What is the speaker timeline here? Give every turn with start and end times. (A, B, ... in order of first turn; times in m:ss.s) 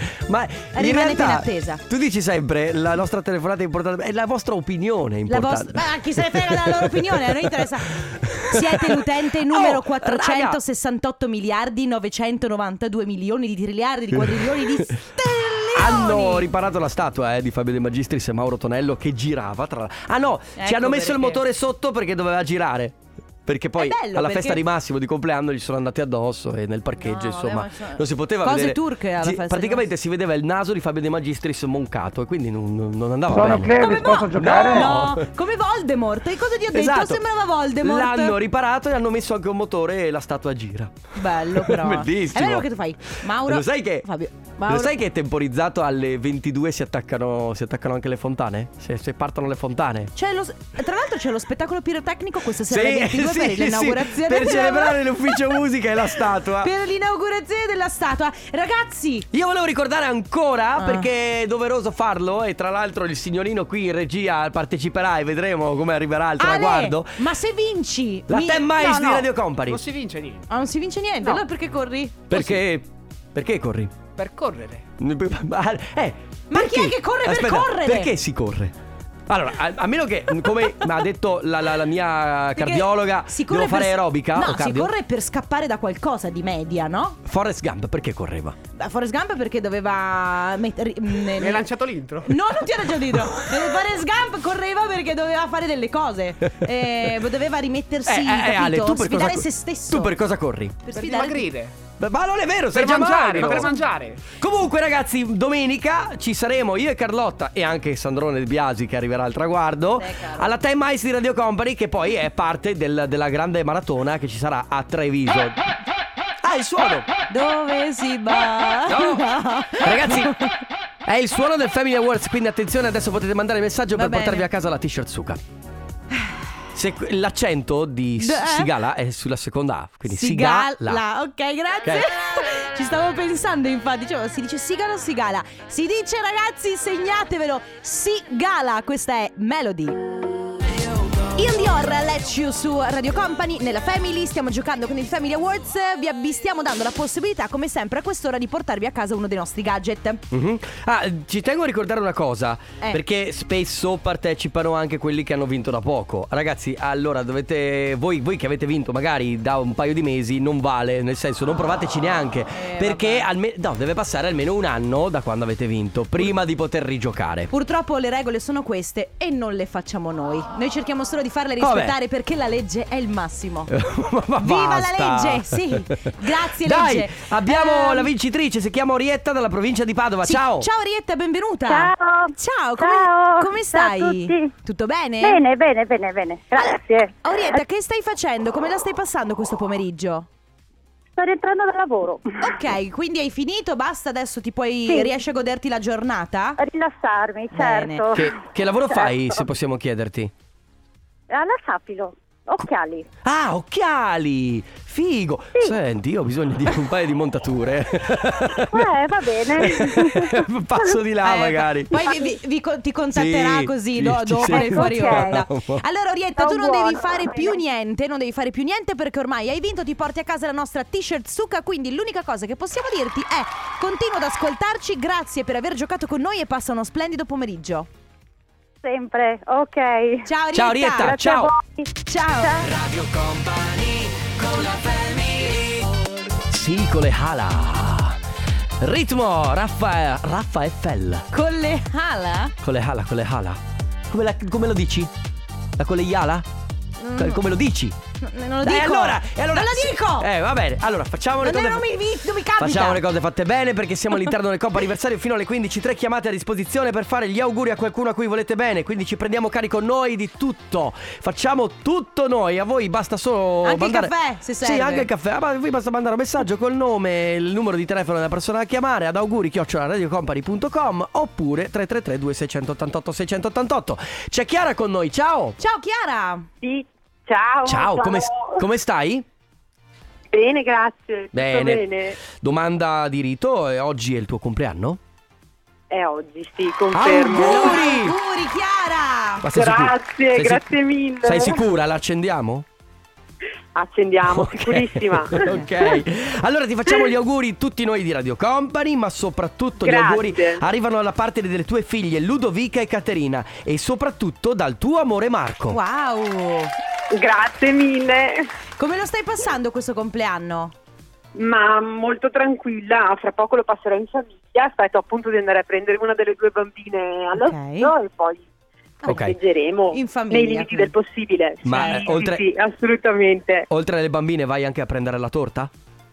0:00.3-0:10.6 A
0:00.7-0:01.8 B
0:05.3-0:16.5 B
0:15.7-0:35.2 A
0:20.6-0:21.4 B
0:23.8-0:24.6 B
0:27.0-0:29.8 B
0:33.7-0:38.4 B
0:36.7-0:37.2 A
0:37.8-0:44.1 A
0:41.2-0:45.0 B
0:44.7-0:50.1 A
0:50.2-0:55.6 B
0:52.7-0:56.7 A
0:56.6-0:59.3 B
0:59.3-1:07.2 A
1:00.8-1:01.0 B
1:06.4-1:09.3 B
1:08.3-1:09.8 A
1:09.6-1:10.5 C
1:10.5-1:12.6 B
1:12.3-1:13.9 A
1:14.2-1:14.9 C
1:15.0-1:18.7 A
1:16.5-1:18.1 B
1:19.3-1:24.9 A
1:22.6-1:27.2 B
1:27.2-1:28.6 A
1:28.7-1:31.7 B
1:31.3-1:32.5 C
1:32.2-1:40.2 B
1:33.2-1:33.6 A
1:38.0-1:40.8 A
1:40.9-1:41.5 B
1:40.9-1:41.7 C
1:42.0-1:43.8 A
1:42.7-1:44.2 C
1:43.3-1:43.8 B
1:44.4-1:55.6 A
1:50.0-1:50.5 B
1:56.4-1:57.1 A
1:57.3-2:00.6 B
1:58.9-2:00.3 A
2:01.0-2:05.4 A
2:03.9-2:04.4 B
2:06.7-2:11.0 A
2:08.2-2:08.7 B
2:10.1-2:20.0 B
2:21.3-2:30.2 B
2:30.3-2:47.5 A
2:42.5-2:43.3 B
2:47.5-2:53.7 B
2:51.6-2:52.0 A
2:53.7-3:00.7 A
2:54.4-2:58.1 B
3:00.2-3:05.4 B
3:01.7-3:04.5 D
3:05.2-3:07.6 D
3:06.6-3:10.3 B
3:11.2-3:12.4 D
3:12.4-3:16.6 B
3:14.9-3:15.1 D
3:16.6-3:18.4 D
3:17.5-3:18.1 B
3:18.1-3:20.3 A
3:18.9-3:19.2 D
3:21.3-3:23.1 D
3:23.2-3:28.9 A
3:28.7-3:30.4 D
3:29.5-3:31.9 A
3:31.2-3:47.9 B
3:32.0-3:32.3 D
3:33.1-3:35.8 A
3:34.4-3:35.4 D
3:36.4-3:37.6 D
3:48.8-3:50.3 D
3:50.2-3:51.2 B
3:50.5-3:51.5 A
3:51.0-3:51.9 D
3:52.0-3:52.6 B
3:52.4-3:52.7 D
3:52.6-3:55.8 A
3:56.5-3:58.2 A
3:58.8-4:01.3 A
4:01.3-4:02.5 B
4:02.6-4:05.1 A
4:05.8-4:06.5 A
4:07.0-4:07.4 B
4:07.2-4:08.0 A
4:08.2-4:10.3 B
4:08.6-4:11.8 A
4:11.4-4:13.0 B
4:12.6-4:35.6 A
4:23.6-4:25.1 B
4:35.6-4:36.5 B
4:36.6-4:38.6 E
4:37.6-4:39.2 A
4:40.3-4:42.2 E
4:41.3-4:45.0 A
4:45.9-4:47.8 E
4:46.9-4:48.2 A
4:47.3-4:49.4 B
4:49.4-4:50.7 A
4:49.5-4:51.6 E
4:51.2-4:52.6 A
4:53.7-4:55.5 E
4:54.2-5:05.8 A
4:59.8-5:00.6 E
5:05.7-5:06.7 B
5:07.1-5:08.5 E
5:08.8-5:10.7 B
5:11.4-5:18.4 E
5:17.3-5:17.9 B
5:19.0-5:19.4 A
5:19.0-5:23.6 E
5:19.9-5:20.9 B
5:21.6-5:22.4 A
5:21.7-5:22.1 B
5:23.7-5:25.7 A